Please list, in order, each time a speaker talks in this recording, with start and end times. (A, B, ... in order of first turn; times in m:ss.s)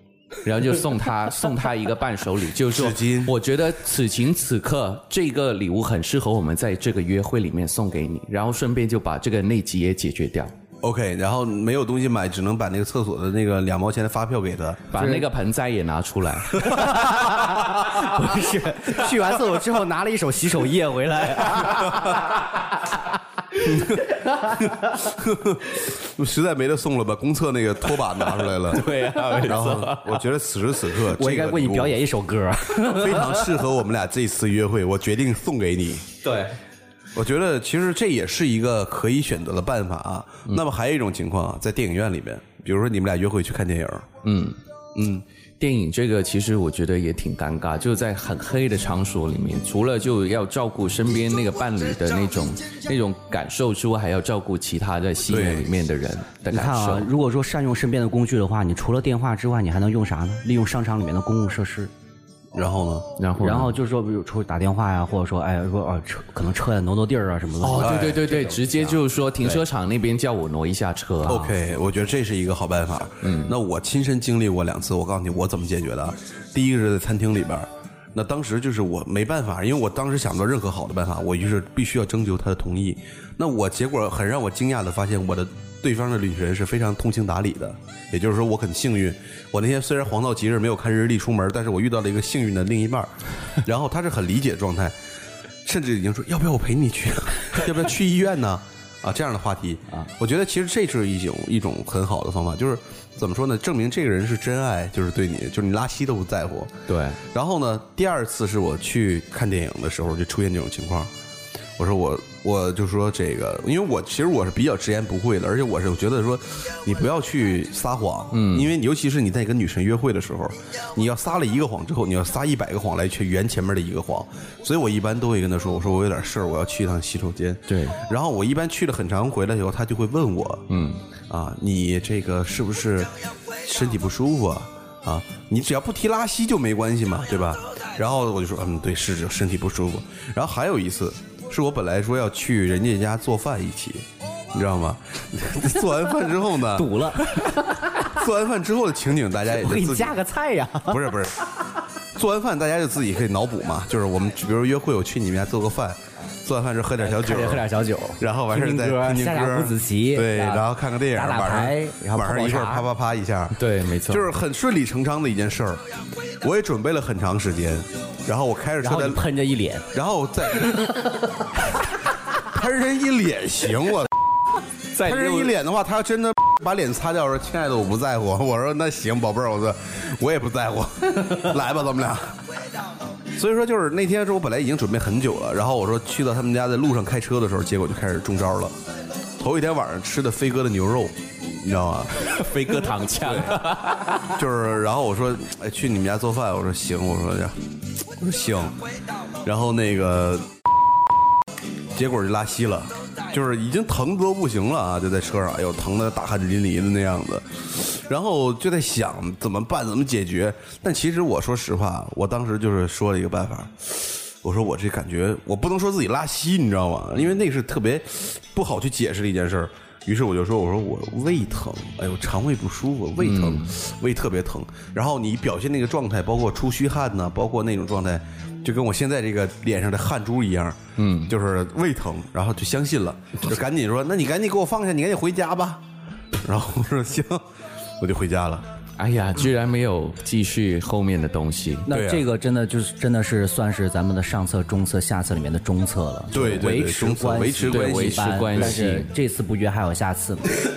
0:00.4-0:10.5 A
0:02.7-0:03.3 B
0:10.8-0:15.0 B
0:14.9-0:16.8 A
0:15.0-0:15.3 C
0:16.6-0:22.7 C
0:23.7-0:24.8 C
0:24.9-0:32.0 B
0:28.4-0:30.2 A
0:31.1-0:33.6 C
0:32.8-0:36.0 B
0:37.2-0:44.1 B
0:44.2-0:44.6 A
0:45.0-0:45.2 B
0:45.6-0:57.1 A
0:55.3-0:55.7 B
0:56.5-1:01.9 C
1:02.5-1:03.1 B
1:03.2-1:03.7 A
1:03.4-1:08.9 C
1:07.6-1:11.5 A
1:07.8-1:08.2 B
1:11.2-1:35.0 B
1:13.2-1:13.6 A
1:35.6-1:51.1 B
1:46.9-1:47.2 A
1:51.8-2:10.7 B
1:58.3-1:58.7 A
2:07.7-2:08.0 A
2:10.7-2:11.0 A
2:11.3-2:13.1 B
2:13.6-2:30.2 B
2:26.7-2:27.9 C
2:29.5-2:31.0 C
2:30.9-2:31.4 B
2:32.2-2:37.7 B
2:37.0-2:42.9 C
2:38.2-2:45.8 B
2:43.6-2:44.3 A
2:46.4-2:49.2 B
2:48.8-2:49.9 C
2:49.9-2:50.9 B
2:50.6-2:51.0 C
2:52.4-2:54.1 B
2:54.9-2:55.5 A
2:55.0-3:02.4 B
3:03.4-3:08.8 B
3:09.4-3:13.6 B
3:12.2-3:14.4 A
3:14.4-3:17.6 B
3:18.2-3:18.8 B
3:19.4-3:20.5 B
3:21.9-3:55.8 B
3:43.2-3:43.7 A
3:51.0-3:51.3 A
3:56.4-3:57.4 B
3:58.0-3:58.6 B
3:59.0-4:01.9 A
4:01.9-4:10.6 C
4:01.9-4:02.3 B
4:06.3-4:08.9 B
4:07.7-4:09.1 A